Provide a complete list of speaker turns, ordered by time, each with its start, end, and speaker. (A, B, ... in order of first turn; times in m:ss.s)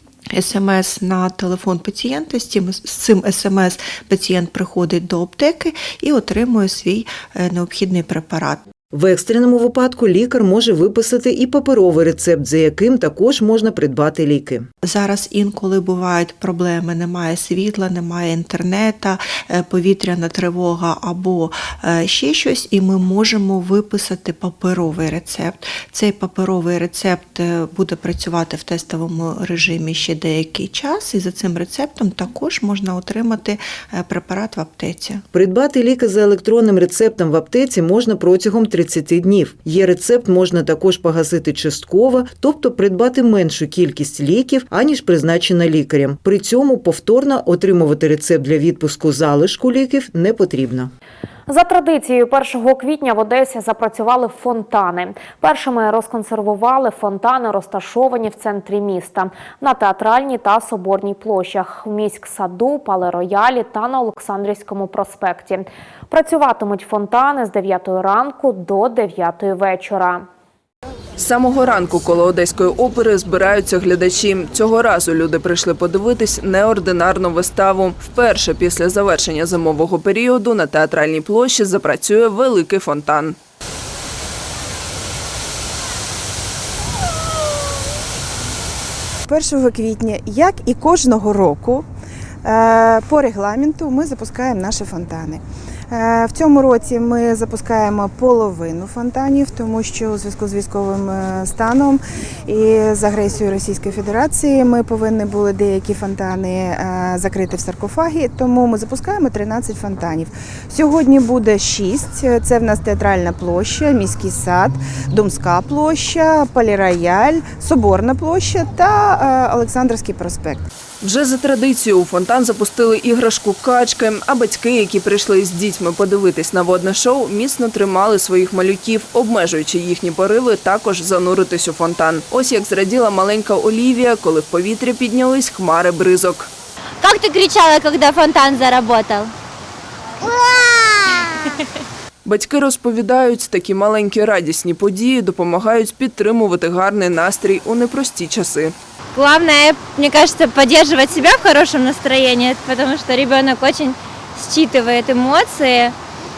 0:00.3-0:08.6 A
0:08.9-0:14.7 B
0:14.8-0:35.2 A
0:35.3-0:50.9 B
0:51.5-1:10.2 C
1:11.2-1:23.4 D
1:29.3-1:31.9 E
1:32.4-2:00.7 E
2:01.0-2:16.5 D
2:17.0-2:19.3 F
2:20.2-2:21.2 F
2:22.2-2:28.7 D
2:29.1-2:35.9 F